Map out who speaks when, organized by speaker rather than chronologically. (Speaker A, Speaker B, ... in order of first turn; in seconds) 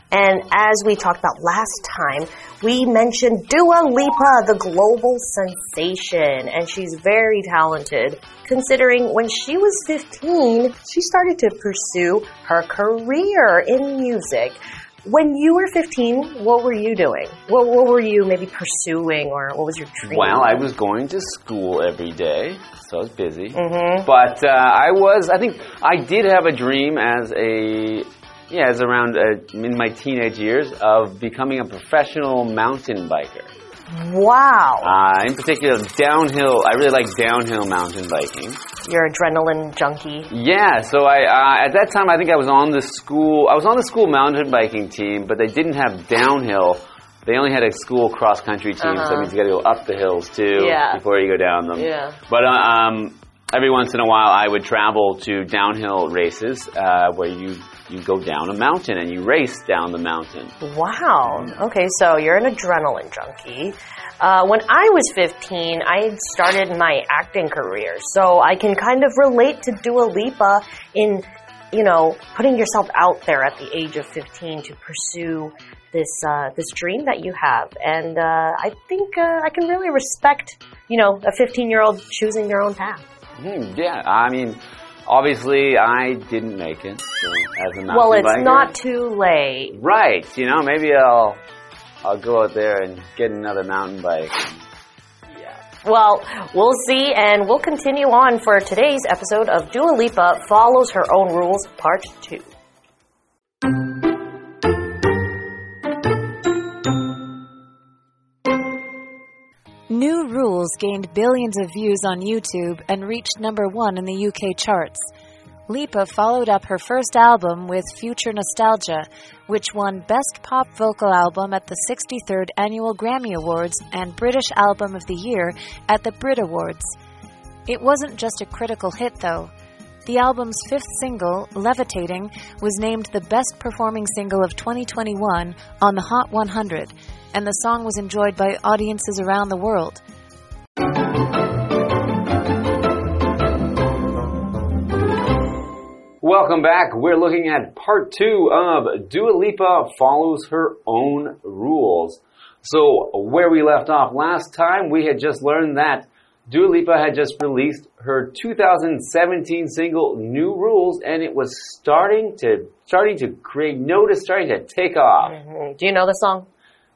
Speaker A: 0.1-20.5, 23.5-24.1, 33.9-34.9, 38.9-40.3, 48.8-49.3, 50.5-51.0, 51.7-52.2, 60.6-83.0, 87.9-89.8, 95.8-102.5, 165.2-166.5
Speaker B: 20.0-33.5, 34.8-38.6, 40.3-60.6, 83.4-88.7, 89.7-91.4, 92.0-94.6, 146.2-165.3
Speaker C: 109.9-115.1, 115.7-127.0, 127.7-129.5, 130.1-140.0